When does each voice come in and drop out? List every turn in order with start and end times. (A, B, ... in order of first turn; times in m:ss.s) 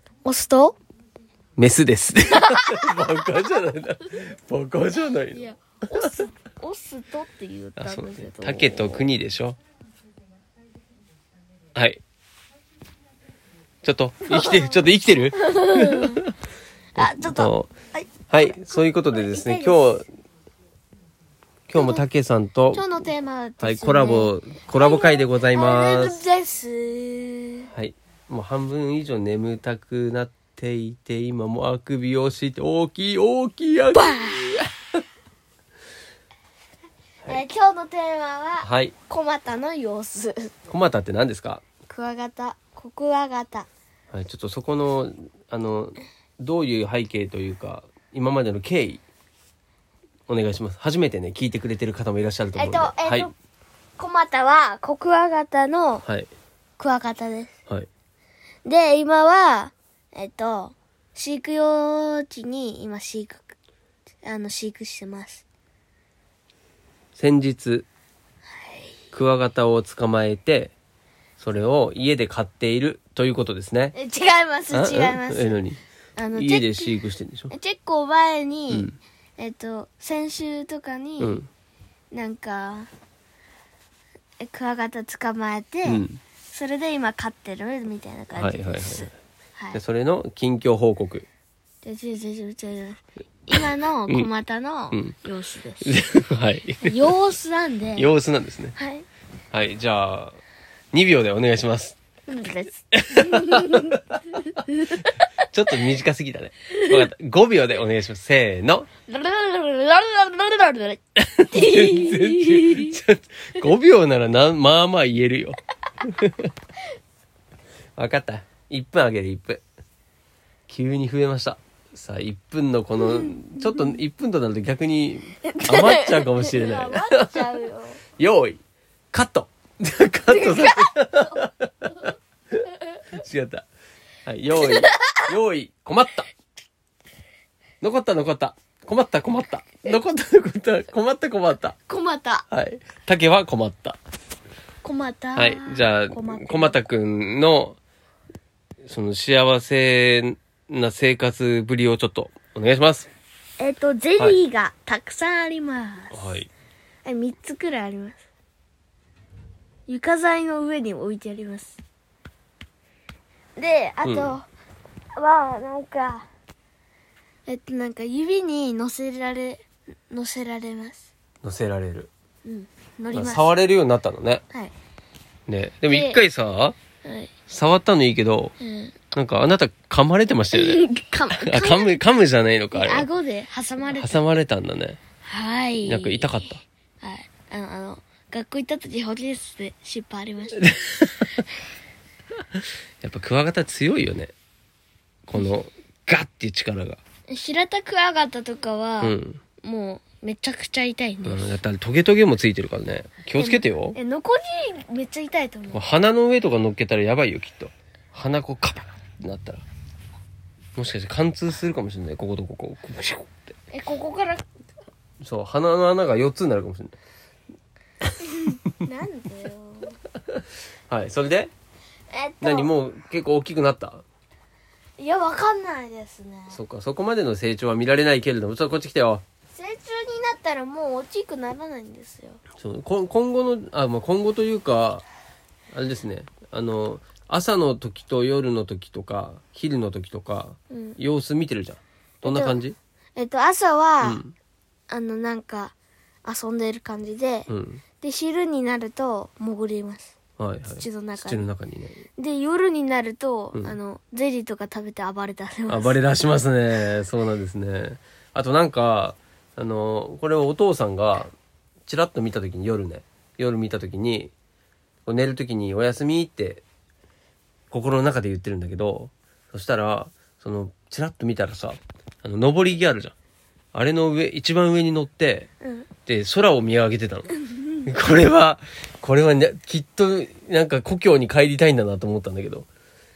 0:00.2-0:00.8 A
0:01.6-0:06.1 B
0:02.3-0:03.0 A
0:05.3-0:09.1 A
0:07.8-0:09.6 B
0:11.8-0:12.0 B
0:13.8-0:16.3 B
0:14.3-0:16.2 A
0:17.0-0:20.0 A
0:17.0-0:17.7 B
0:18.3-0:20.1 B
0:21.7-0:22.8 B
0:21.8-0:22.0 A
0:22.7-0:27.7 A
0:23.6-0:26.2 B
0:27.7-0:34.7 B
0:34.0-0:34.5 A
0:37.2-0:40.5 A
0:38.6-0:38.9 B
0:40.7-0:41.6 B
0:41.9-0:43.7 A
0:44.1-0:49.0 B
0:50.3-0:53.3 B
0:52.6-0:53.3 A
0:54.0-0:56.0 A
0:56.0-0:56.3 B
0:56.8-0:57.5 A
0:58.6-1:03.6 A
1:04.2-1:05.4 A
1:07.2-1:07.9 B
1:08.6-1:08.9 A
1:09.1-1:10.7 B
1:11.4-1:14.0 B
1:13.9-1:15.6 A
1:14.7-1:15.8 B
1:16.2-1:17.0 A
1:16.3-1:17.5 B
1:17.5-1:21.4 A
1:18.7-1:19.0 B
1:21.2-1:21.5 B
1:22.1-1:22.9 A
1:24.4-1:29.8 A
1:25.8-1:26.2 B
1:28.4-1:29.2 B
1:29.7-1:31.3 B
1:31.8-1:36.0 A
1:33.6-1:34.3 B
1:35.8-1:37.1 B
1:36.8-1:38.1 A
1:38.0-1:38.8 B
1:38.8-1:39.1 A
1:39.5-1:40.4 B
1:40.9-1:42.0 B
1:42.3-1:45.3 A
1:42.9-1:44.2 B
1:45.5-1:48.9 B
1:46.7-1:47.0 A
1:49.1-1:53.0 A
1:51.2-1:56.5 B
1:58.0-1:59.6 B
2:00.7-2:07.6 B
2:03.0-2:03.3 A
2:05.5-2:08.0 A
2:08.2-2:08.6 B
2:09.1-2:12.1 B
2:10.3-2:10.9 A
2:13.1-2:13.7 B
2:14.3-2:16.3 B
2:14.6-2:15.3 A
2:17.8-2:21.8 B
2:21.9-2:22.5 A
2:22.5-2:24.0 B
2:24.8-2:26.8 A
2:25.4-2:27.8 B
2:28.8-2:33.1 B
2:33.6-2:36.3 A
2:36.1-2:36.5 B
2:37.0-2:38.2 A
2:39.9-2:41.8 A
2:43.6-2:44.4 A
2:44.0-2:44.4 B
2:45.2-2:46.3 A
2:47.5-2:51.1 A
2:51.4-2:52.1 B
2:52.4-2:53.5 A
2:53.1-2:54.4 B
2:55.5-2:56.8 B
2:55.9-2:56.2 A
2:57.0-2:57.3 A
2:57.5-2:58.6 B
2:58.6-2:59.0 A
2:59.1-3:03.1 B
3:00.5-3:02.0 A
3:02.7-3:04.2 A
3:03.9-3:05.0 B
3:05.2-3:10.7 A
3:05.8-3:06.6 B
3:10.6-3:11.4 B
3:13.0-3:14.3 B
3:15.3-3:17.0 B
3:17.3-3:21.5 A
3:19.0-3:19.4 B
3:21.2-3:24.0 B
3:23.4-3:25.9 A
3:25.7-3:29.6 B
3:30.8-3:33.5 B
3:33.7-3:34.5 A
3:35.2-3:37.0 B
3:38.4-3:40.0 A
3:40.9-3:41.5 B
3:42.1-3:42.7 A
3:42.4-3:44.0 B
3:45.0-3:46.6 A
3:46.5-3:49.2 B
3:49.5-3:52.4 A
3:52.6-3:55.1 B
3:55.7-4:02.8 B
4:00.7-4:01.0 A
4:02.2-4:02.6 A
4:03.2-4:04.2 A
4:04.0-4:04.4 B
4:04.9-4:07.5 A
4:07.5-4:07.8 B
4:08.0-4:10.2 A
4:10.4-4:12.0 B
4:10.8-4:11.5 A
4:12.2-4:16.0 A
4:15.7-4:21.3 B
4:21.8-4:24.3 B
4:25.0-4:26.6 B
4:27.7-4:33.1 B
4:33.7-4:35.5 B
4:35.6-4:35.9 A
4:36.1-4:37.3 B
4:37.8-4:42.7 B